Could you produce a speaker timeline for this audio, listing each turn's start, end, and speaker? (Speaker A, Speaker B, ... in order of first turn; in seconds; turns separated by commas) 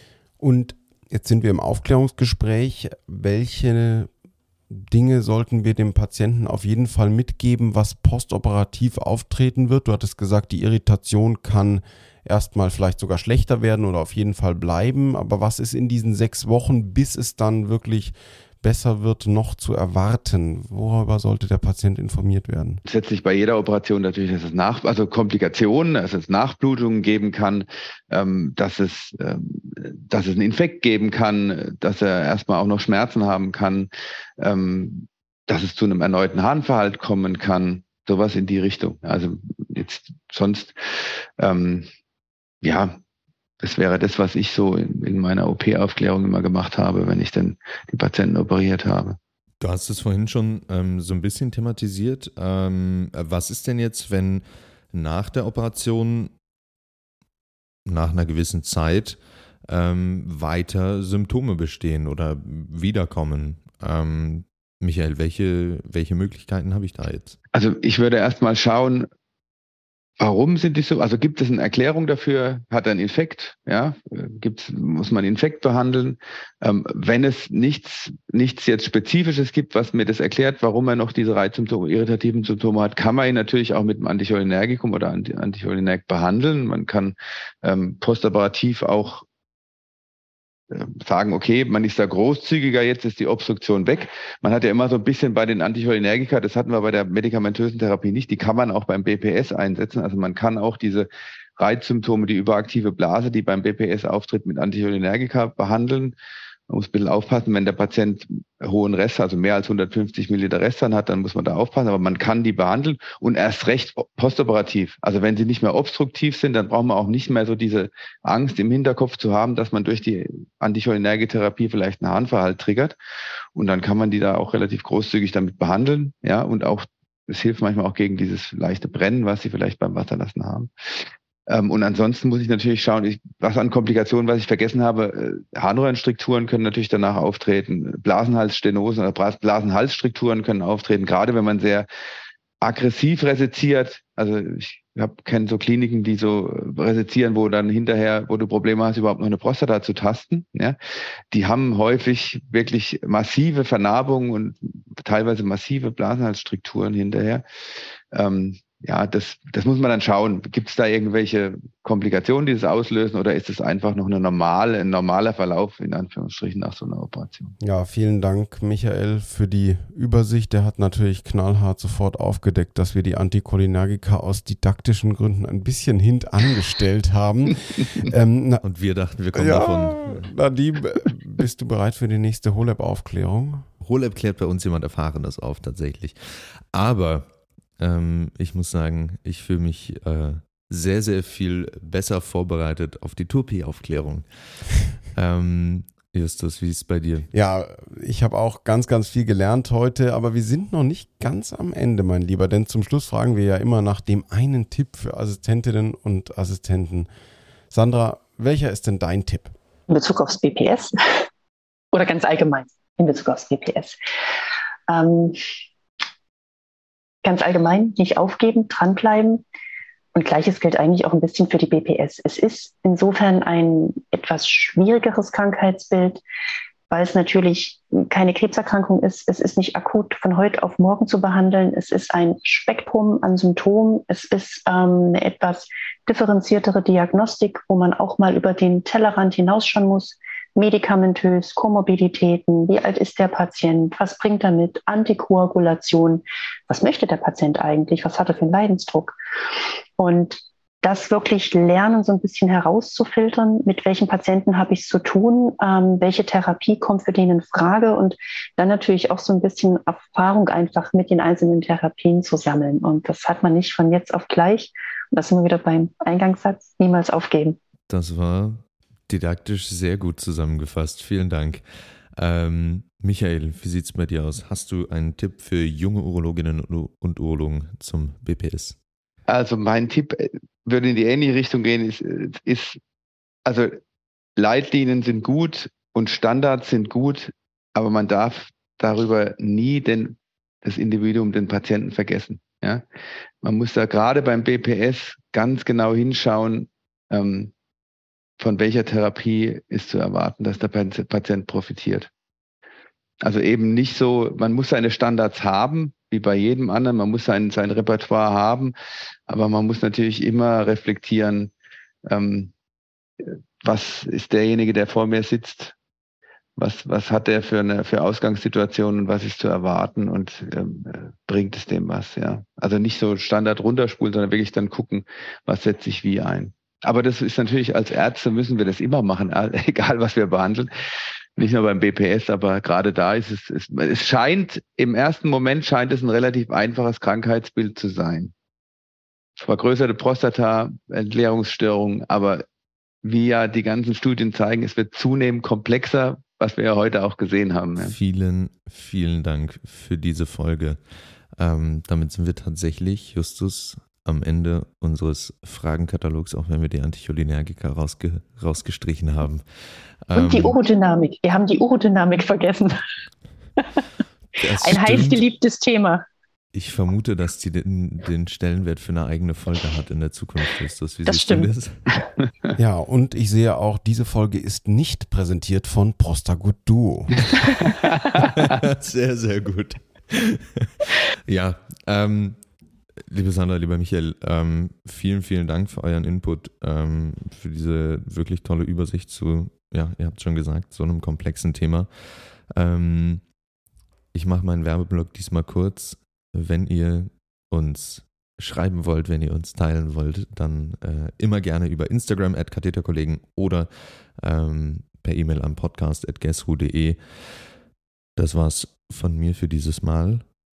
Speaker A: 0.4-4.1, Speaker A: 4.7-22.8, Speaker B: 22.9-41.9, Speaker B: 42.6-43.0, Speaker B: 43.6-49.2, Speaker C: 49.6-56.3, Speaker C: 57.9-67.4, Speaker B: 67.5-69.1, Speaker B: 70.2-89.2, Speaker B: 90.7-106.2, Speaker B: 106.7-123.0, Speaker B: 123.5-141.9, Speaker B: 142.6-150.8, Speaker B: 151.3-157.4, Speaker B: 158.1-167.5, Speaker A: 167.6-178.6, Speaker C: 178.6-180.3, Speaker A: 179.3-183.7, Speaker C: 183.8-197.3, Speaker A: 197.3-207.1, Speaker A: 207.7-209.5, Speaker D: 209.9-211.2, Speaker D: 211.9-214.0, Speaker D: 214.9-215.4, Speaker D: 217.2-219.4, Speaker D: 220.1-226.2, Speaker D: 226.9-249.2, Speaker D: 250.0-267.6, Speaker C: 267.9-278.8, Speaker B: 279.3-282.8, Speaker B: 283.4-283.8, Speaker B: 284.4-292.8, Speaker B: 293.4-297.5, Speaker B: 298.4-302.1, Speaker B: 303.2-308.7, Speaker B: 309.3-311.5, Speaker B: 312.1-312.5, Speaker B: 313.2-315.7, Speaker B: 316.6-330.7, Speaker B: 331.4-338.3, Speaker B: 339.4-342.4, Speaker B: 343.0-347.9, Speaker C: 347.8-350.8, Speaker C: 351.4-359.4, Speaker C: 360.0-360.6, Speaker D: 360.1-362.8, Speaker C: 364.4-365.2, Speaker D: 364.5-366.0, Speaker C: 366.5-371.9, Speaker D: 371.1-372.0, Speaker A: 372.6-377.3, Speaker C: 378.2-382.4, Speaker C: 383.1-393.2, Speaker C: 394.1-407.3, Speaker C: 408.1-410.2